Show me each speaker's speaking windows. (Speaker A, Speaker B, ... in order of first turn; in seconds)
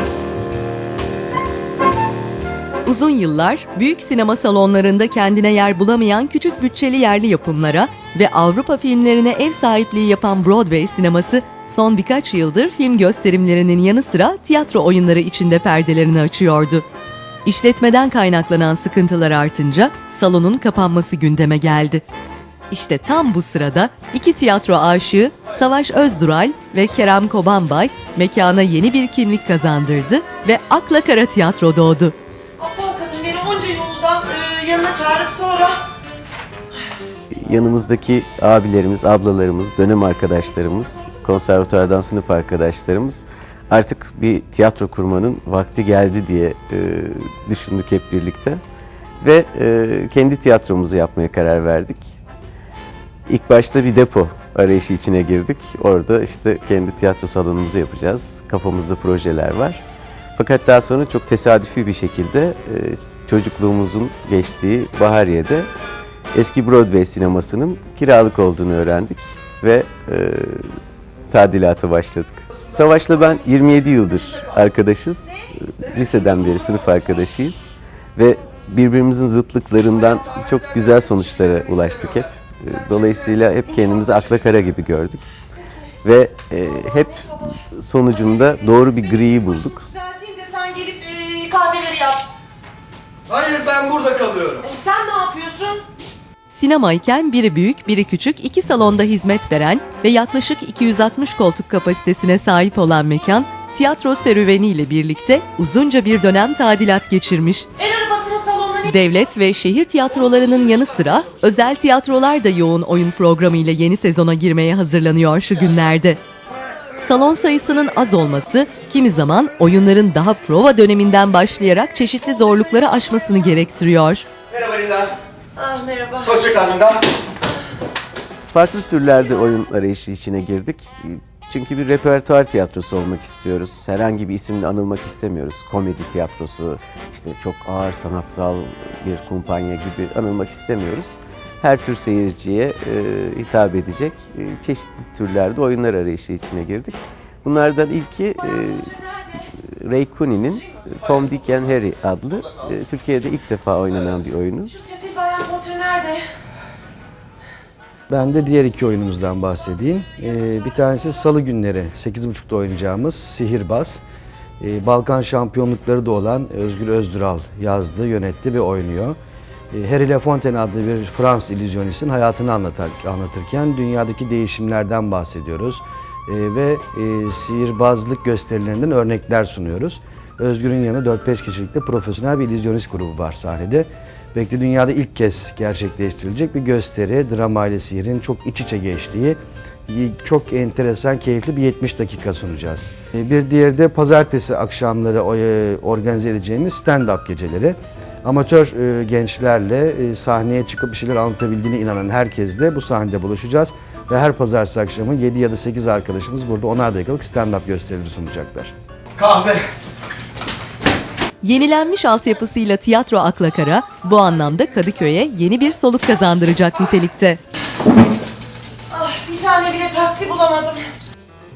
Speaker A: 2.9-16.9, 17.4-22.0, 22.7-32.1, 96.5-107.7, 108.9-116.2, 117.0-124.3, 211.4-217.4
Speaker B: 32.6-35.8, 86.9-87.5, 89.7-92.3, 94.5-95.8, 107.8-108.9, 125.6-126.7, 154.7-156.3, 218.9-220.8
Speaker C: 37.3-48.6, 49.2-52.1, 53.3-59.8, 60.4-65.7, 66.3-70.8, 71.3-85.3, 86.0-89.8, 128.5-149.0, 149.6-154.8
Speaker D: 93.3-94.6, 124.5-125.1, 126.4-127.0
Speaker E: 158.1-164.0, 164.6-169.2, 169.7-209.6